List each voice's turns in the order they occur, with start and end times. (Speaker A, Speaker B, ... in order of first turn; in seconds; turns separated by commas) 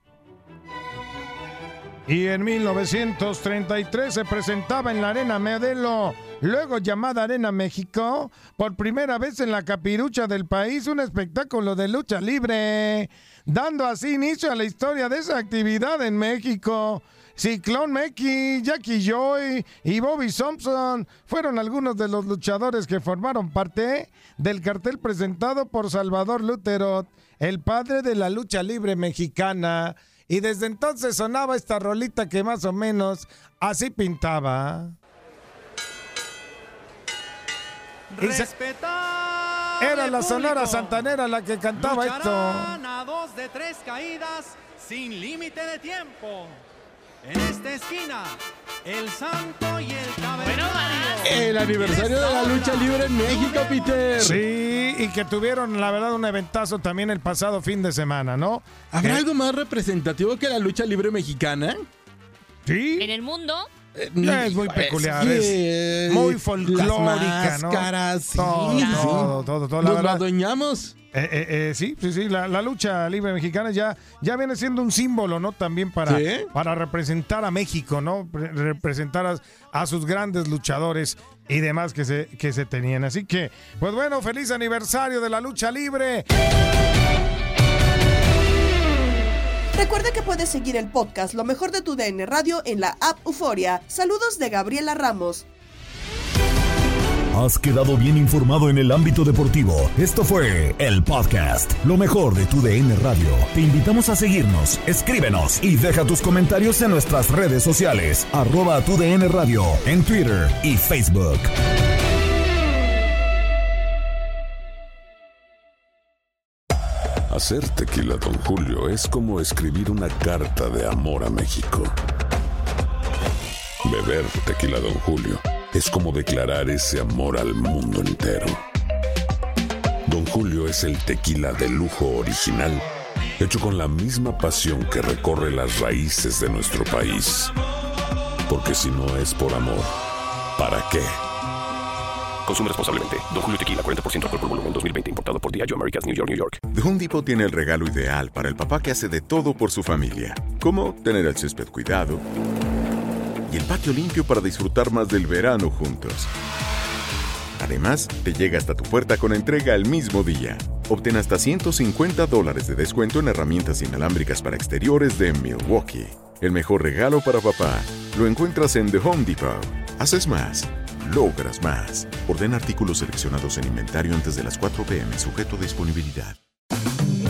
Speaker A: 2.1-35.0, Speaker B: 38.1-41.0, Speaker A: 38.2-38.5, Speaker A: 39.8-42.8, Speaker B: 41.8-46.6, Speaker B: 47.2-53.7, Speaker C: 50.4-54.0, Speaker D: 51.2-54.4, Speaker A: 54.1-59.2, Speaker D: 58.9-61.8, Speaker A: 62.7-63.1, Speaker C: 63.0-63.7, Speaker D: 64.0-71.0, Speaker A: 64.2-70.2, Speaker C: 68.7-69.3, Speaker A: 71.1-86.3, Speaker D: 76.1-76.5, Speaker E: 89.8-95.5, Speaker F: 97.3-111.5, Speaker G: 117.3-121.9, Speaker G: 123.8-128.6, Speaker G: 130.1-132.8, Speaker G: 133.4-137.5, Speaker G: 138.5-139.9, Speaker G: 140.6-141.1, Speaker H: 142.4-146.6, Speaker I: 146.7-152.2, Speaker I: 153.5-156.3, Speaker I: 157.6-176.4